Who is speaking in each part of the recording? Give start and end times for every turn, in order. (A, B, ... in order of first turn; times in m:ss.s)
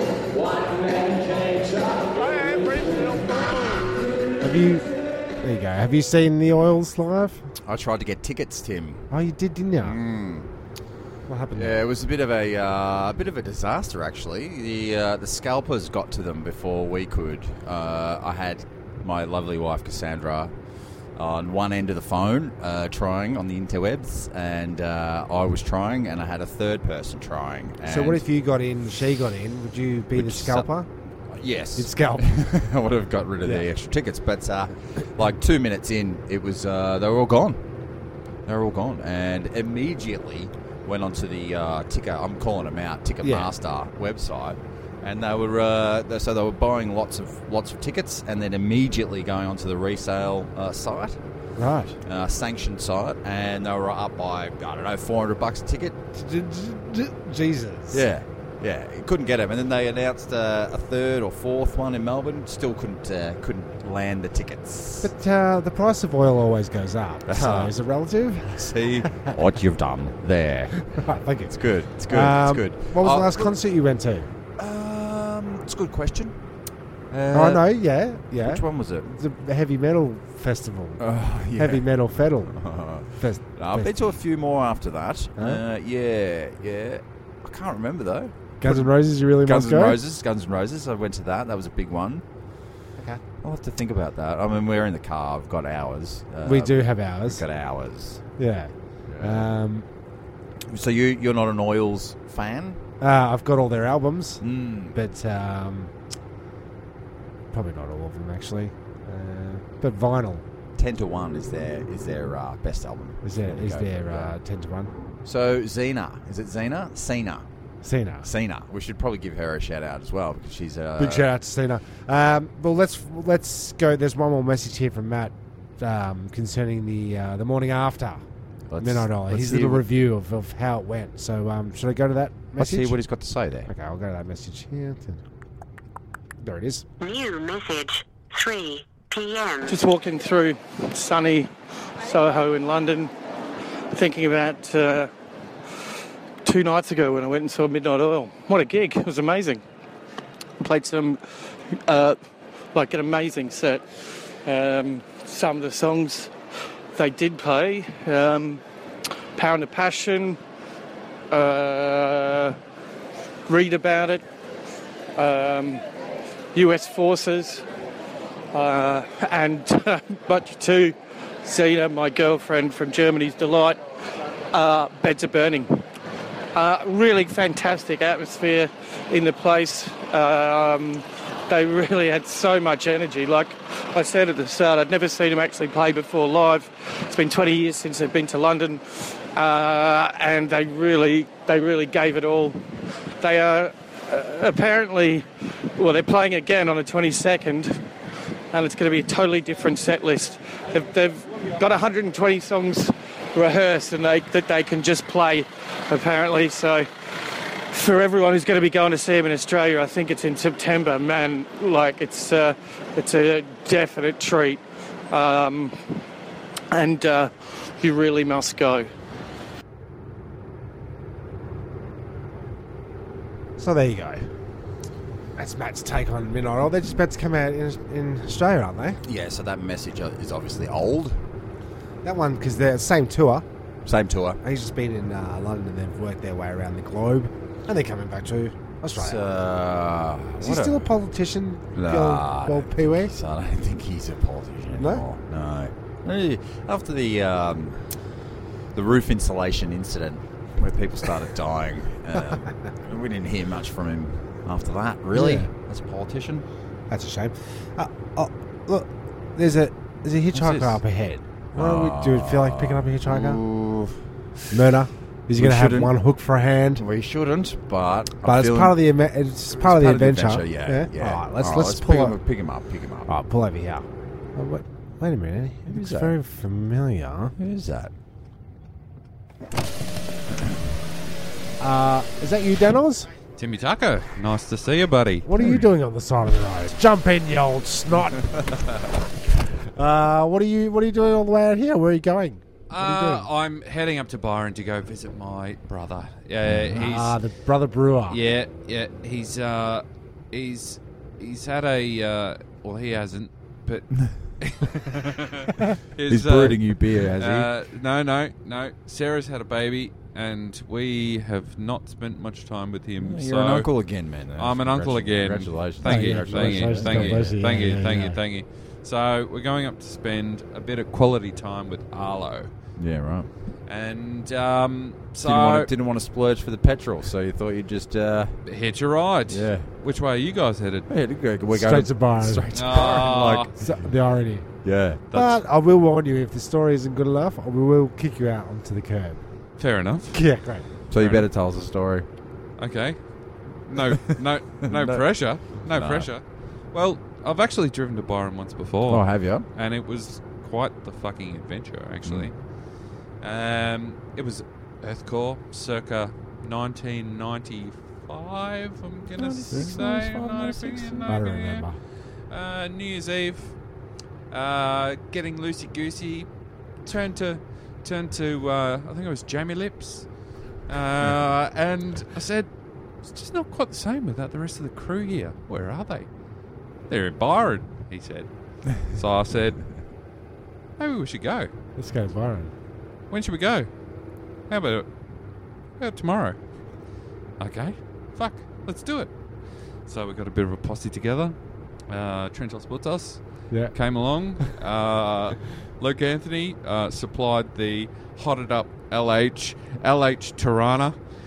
0:02.0-0:03.9 A
0:04.4-0:04.9 B
0:05.4-0:07.4 B
0:07.6-0:09.0 C
0:09.1-0:10.0 B
0:09.8-0:10.5 C
0:11.3-0:11.8 B
0:11.5-0:20.5 C
0:21.2-0:28.2 C
0:27.8-0:30.9 B
0:30.1-0:30.7 C
0:31.3-0:37.6 C
0:31.8-0:32.4 B
0:38.4-0:51.2 C
0:43.2-0:43.5 B
0:51.6-0:52.0 B
0:52.0-0:56.0 C
0:56.1-0:58.0 B
0:57.9-1:05.1 C
1:05.0-1:09.3 B
1:07.3-1:07.7 C
1:08.5-1:13.5 C
1:11.0-1:14.3 B
1:14.6-1:16.4 C
1:17.1-1:17.6 C
1:17.3-1:24.0 B
1:18.4-1:19.1 C
1:21.0-1:32.2 C
1:28.6-1:30.0 B
1:33.2-1:38.2 C
1:36.4-1:37.4 B
1:38.4-1:39.8 B
1:39.0-1:39.5 C
1:40.7-1:42.8 C
1:43.0-1:45.9 B
1:44.4-1:45.0 C
1:47.5-1:50.4 B
1:50.8-1:54.4 C
1:53.2-1:54.9 B
1:55.2-1:57.4 C
1:57.8-1:58.3 B
1:58.2-2:01.3 C
2:01.0-2:08.2 B
2:08.7-2:09.8 C
2:08.8-2:13.0 B
2:12.6-2:13.7 C
2:13.7-2:15.2 B
2:16.4-2:16.8 B
2:17.0-2:19.8 D
2:19.7-2:23.1 A
2:23.9-2:25.1 A
2:26.4-2:29.6 A
2:30.6-2:31.2 A
2:31.9-2:32.2 A
2:32.7-2:33.8 A
2:34.4-2:36.3 A
2:36.9-2:38.6 A
2:39.4-2:40.4 A
2:41.3-2:42.6 A
2:43.5-2:44.2 A
2:45.2-2:45.8 A
2:46.5-2:47.6 A
2:48.5-2:53.8 A
2:54.5-2:55.8 A
2:56.5-3:12.6 A
3:13.2-3:17.8 A
3:18.5-3:26.9 A
3:27.7-3:35.9 A
3:36.7-3:38.9 A
3:43.6-3:44.3 B
3:45.4-3:49.0 B
3:49.0-3:51.2 C
3:52.0-3:53.4 B
3:53.8-3:54.4 C
3:54.4-3:59.2 B
3:58.9-4:00.9 C
4:00.4-4:03.1 B
4:01.7-4:07.8 C
4:04.8-4:05.0 B
4:08.7-4:16.4 C
4:15.1-4:15.5 B
4:16.9-4:23.4 B
4:20.3-4:20.8 C
4:21.5-4:24.0 C
4:24.5-4:26.8 B
4:25.3-4:25.9 C
4:26.8-4:28.8 C
4:28.2-4:32.2 B
4:29.5-4:33.2 C
4:33.1-4:37.3 B
4:35.7-4:36.1 C
4:37.4-4:37.9 C
4:41.6-4:43.1 B
4:43.4-4:45.2 E
4:45.2-4:48.4 B
4:49.7-4:53.2 B
4:52.7-4:57.2 E
4:56.4-4:56.8 C
4:56.7-4:58.2 B
4:58.1-5:13.7 E
5:06.0-5:07.5 C
5:13.0-5:17.4 C
5:14.3-5:22.5 E
5:15.8-5:18.2 B
5:22.8-5:23.3 C
5:23.7-5:25.7 E
5:25.2-5:28.4 C
5:28.4-5:30.9 E
5:29.3-5:29.7 C
5:30.9-5:33.9 C
5:31.5-5:33.0 B
5:32.5-5:33.5 E
5:33.6-5:34.5 B
5:34.6-5:35.0 C
5:35.1-5:35.4 E
5:35.1-5:39.2 B
5:39.6-5:40.2 E
5:40.1-5:40.6 B
5:40.9-5:42.0 C
5:40.9-5:41.3 E
5:42.6-5:43.0 E
5:43.5-5:52.4 E
5:43.8-5:46.1 C
5:48.8-5:49.5 C
5:52.0-5:52.3 C
5:53.2-6:01.7 E
5:59.1-6:01.2 C
6:01.1-6:01.8 B
6:02.3-6:03.6 E
6:04.3-6:06.3 E
6:06.8-6:16.1 E
6:16.9-6:19.8 E
6:20.8-6:21.5 E
6:21.8-6:22.5 B
6:23.1-6:23.7 E
6:24.5-6:24.9 E
6:25.8-6:26.4 E
6:27.4-6:29.1 E
6:29.8-6:31.4 E
6:31.9-6:41.0 E
6:33.5-6:33.7 B